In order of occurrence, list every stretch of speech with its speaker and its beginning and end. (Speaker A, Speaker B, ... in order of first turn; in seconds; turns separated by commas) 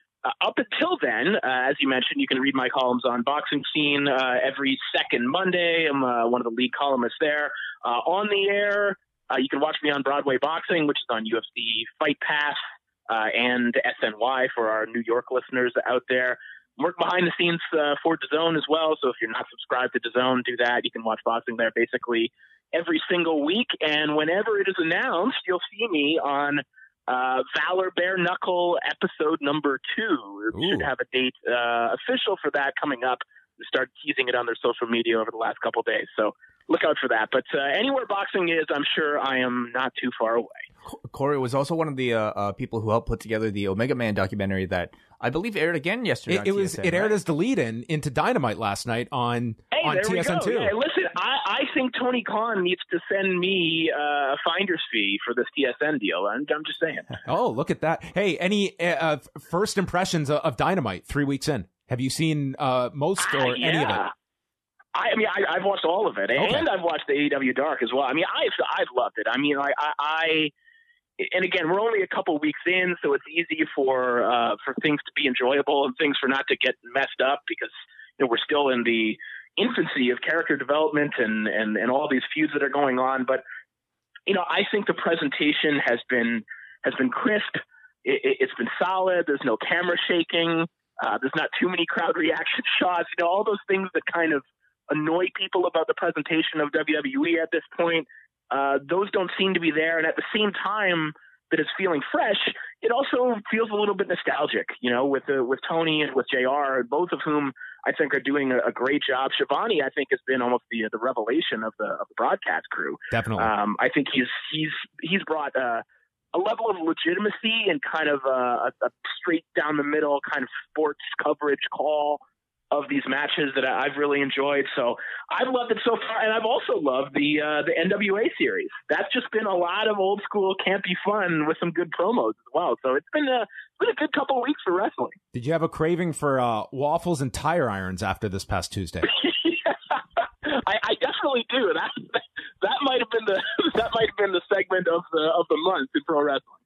Speaker A: 0.2-40.6, Speaker B: 30.5-30.9, Speaker C: 40.8-47.1, Speaker B: 46.3-50.7, Speaker A: 49.7-57.1, Speaker B: 57.2-64.0, Speaker A: 63.2-64.1, Speaker A: 64.9-70.5, Speaker B: 66.3-66.7, Speaker A: 71.2-83.4, Speaker A: 84.3-135.2, Speaker B: 113.1-113.5, Speaker B: 135.3-139.1, Speaker A: 139.0-146.6